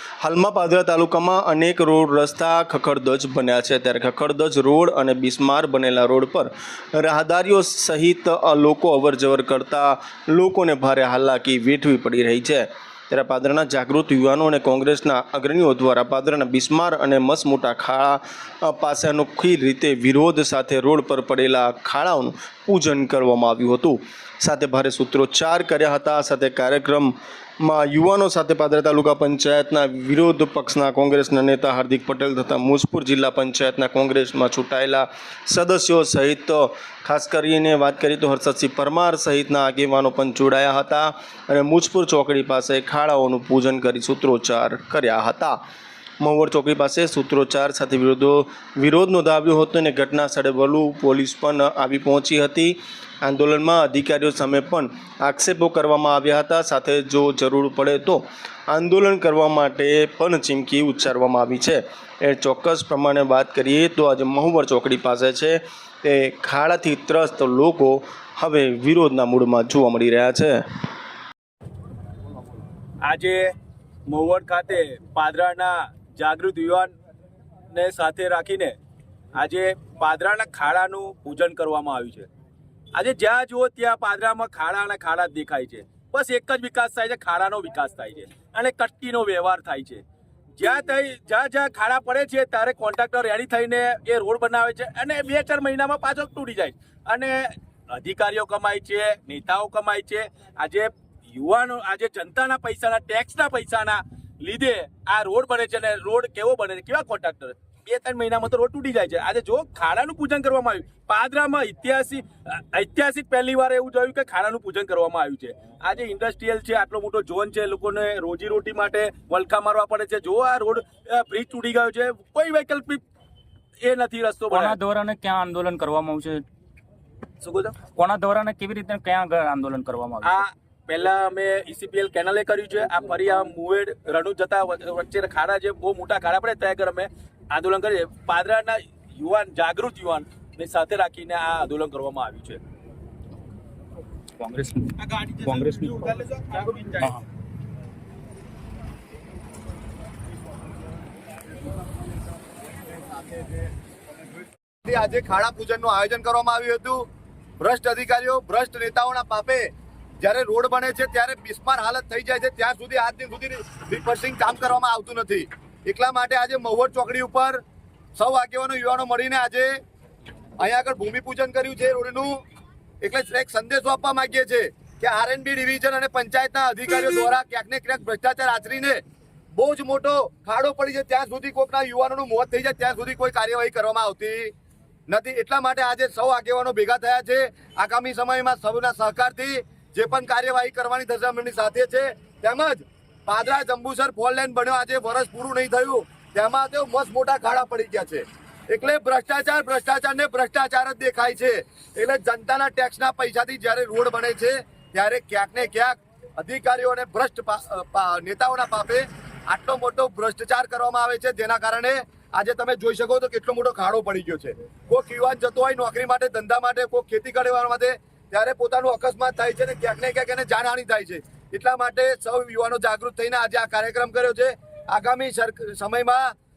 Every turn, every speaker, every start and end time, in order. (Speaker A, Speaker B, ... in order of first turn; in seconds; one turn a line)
Speaker A: 0.2-45.6
Speaker A: 46.2-70.6
Speaker B: 73.0-73.5
Speaker B: 74.1-76.9
Speaker B: 77.7-78.8
Speaker B: 79.3-82.3
Speaker B: 82.9-90.0
Speaker B: 90.6-123.0
Speaker B: 123.8-124.8
Speaker C: 124.5-126.5
Speaker B: 127.4-127.8
Speaker C: 127.9-130.4
Speaker B: 130.2-142.6
Speaker C: 144.4-146.1
Speaker B: 145.0-147.1
Speaker C: 147.0-147.2
Speaker D: 154.8-157.1
Speaker D: 157.6-159.7
Speaker D: 160.2-167.6
Speaker D: 168.2-169.8
Speaker D: 170.6-172.4
Speaker D: 173.0-179.0
Speaker D: 179.5-184.5
Speaker D: 185.1-226.3